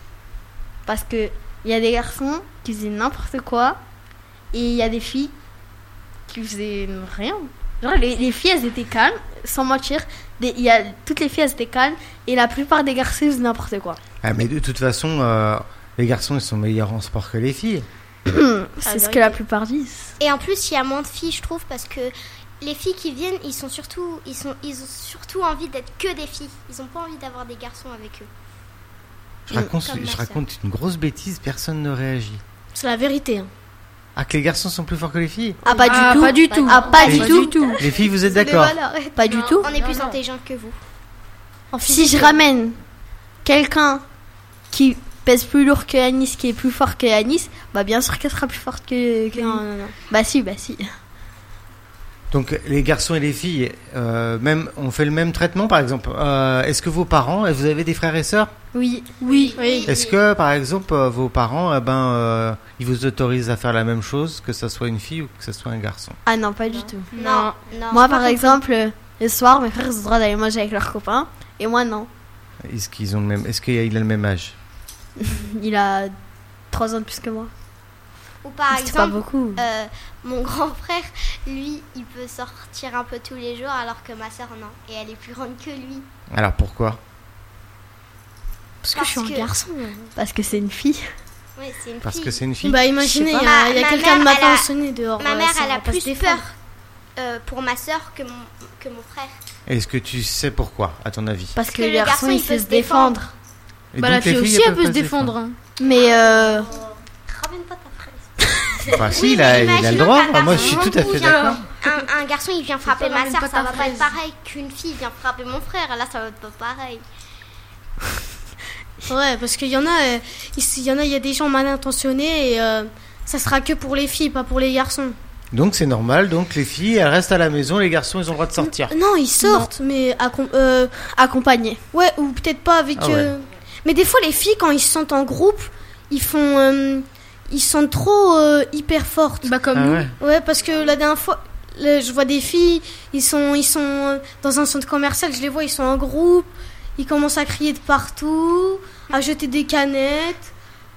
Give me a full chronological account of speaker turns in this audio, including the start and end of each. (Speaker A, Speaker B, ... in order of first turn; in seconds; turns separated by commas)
Speaker A: 0.8-3.8, Speaker A: 4.5-5.3, Speaker A: 6.3-14.0, Speaker B: 14.2-17.9, Speaker A: 18.2-20.1, Speaker C: 18.9-19.4, Speaker D: 20.2-28.3, Speaker B: 29.5-32.4, Speaker D: 29.8-30.4, Speaker C: 32.7-33.5, Speaker B: 34.1-35.6, Speaker A: 35.6-39.7, Speaker D: 35.7-37.5, Speaker E: 35.8-37.8, Speaker B: 37.1-38.7, Speaker E: 39.2-40.1, Speaker D: 39.3-40.8, Speaker C: 41.7-42.4, Speaker A: 41.8-42.8, Speaker A: 43.4-44.0, Speaker A: 44.7-50.9, Speaker C: 49.3-49.9, Speaker B: 52.3-58.5, Speaker A: 58.7-59.4, Speaker C: 59.2-59.6, Speaker E: 59.3-60.0, Speaker D: 59.5-59.9, Speaker B: 59.9-66.2, Speaker A: 66.2-67.0, Speaker E: 67.1-67.6, Speaker D: 67.1-68.6, Speaker A: 67.9-72.1, Speaker B: 72.6-74.5, Speaker A: 75.2-76.1, Speaker A: 76.7-77.5, Speaker D: 78.4-86.1, Speaker A: 78.7-79.6, Speaker B: 86.3-87.0, Speaker C: 88.8-90.1, Speaker D: 88.9-89.5, Speaker A: 90.2-91.0, Speaker D: 91.6-92.4, Speaker B: 92.0-92.8, Speaker C: 92.6-96.4, Speaker D: 93.3-94.7, Speaker D: 95.2-96.5, Speaker D: 97.2-99.3, Speaker B: 99.7-101.6, Speaker A: 101.5-103.3, Speaker D: 101.7-103.2, Speaker B: 103.9-105.3, Speaker E: 104.0-105.6, Speaker A: 105.8-106.7, Speaker A: 107.3-109.1, Speaker B: 109.0-111.6, Speaker D: 109.1-117.0, Speaker E: 110.5-111.6, Speaker E: 112.8-114.1, Speaker C: 119.1-125.2, Speaker B: 125.5-128.9, Speaker C: 128.6-130.9, Speaker E: 129.4-129.7, Speaker A: 131.1-131.8, Speaker C: 131.9-139.5, Speaker B: 133.0-133.3, Speaker E: 139.4-140.1, Speaker B: 139.7-140.1, Speaker C: 140.2-150.5